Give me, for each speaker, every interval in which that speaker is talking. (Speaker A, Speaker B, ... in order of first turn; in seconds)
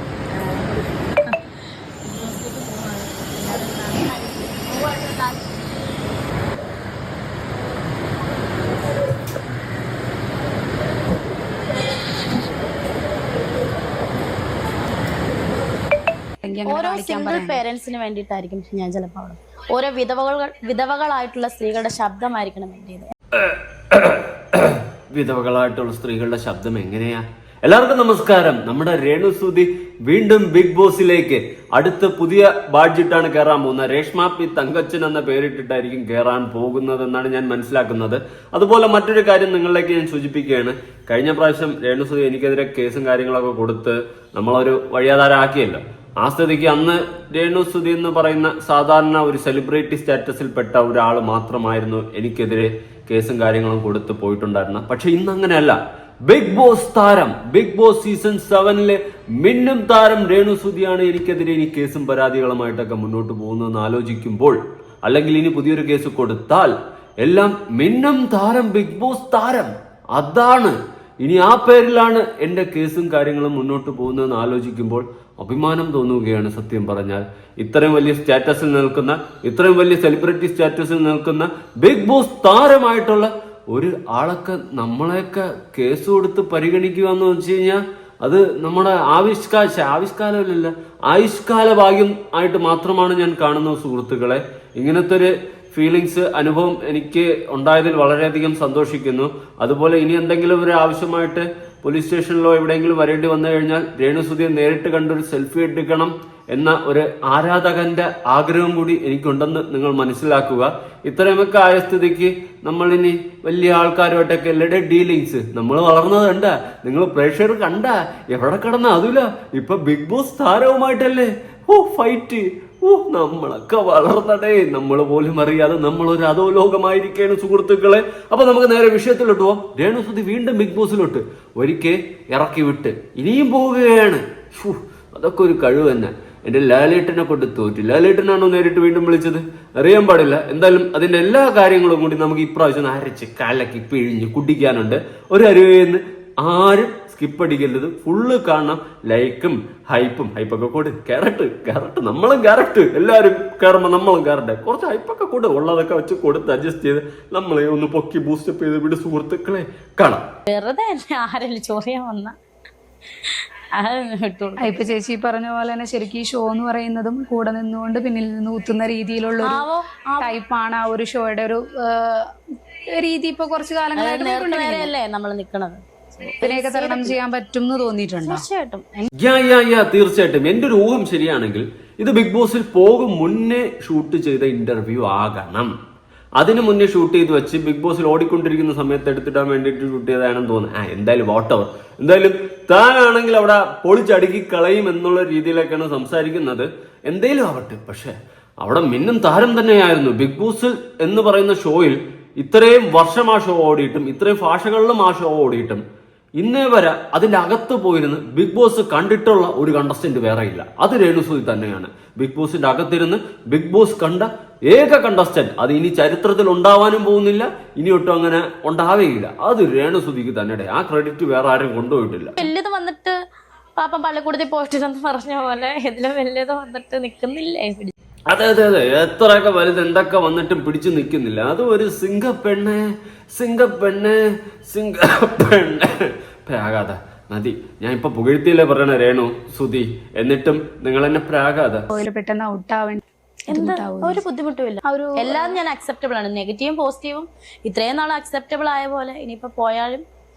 Speaker A: 0.3-1.4, 2.0-5.5, 16.7-23.1, 160.5-162.3, 163.7-164.9, 169.4-170.3, 173.9-177.2, 178.2-179.1, 222.4-223.1, 223.8-227.9, 243.5-250.0
Speaker B: 16.4-17.6, 164.6-169.6, 170.2-172.2, 173.0-174.9, 176.4-178.4, 241.9-244.2, 244.8-245.6
Speaker C: 23.3-160.2, 179.2-185.7, 186.4-205.8, 206.4-222.4, 228.3-235.9, 236.5-241.9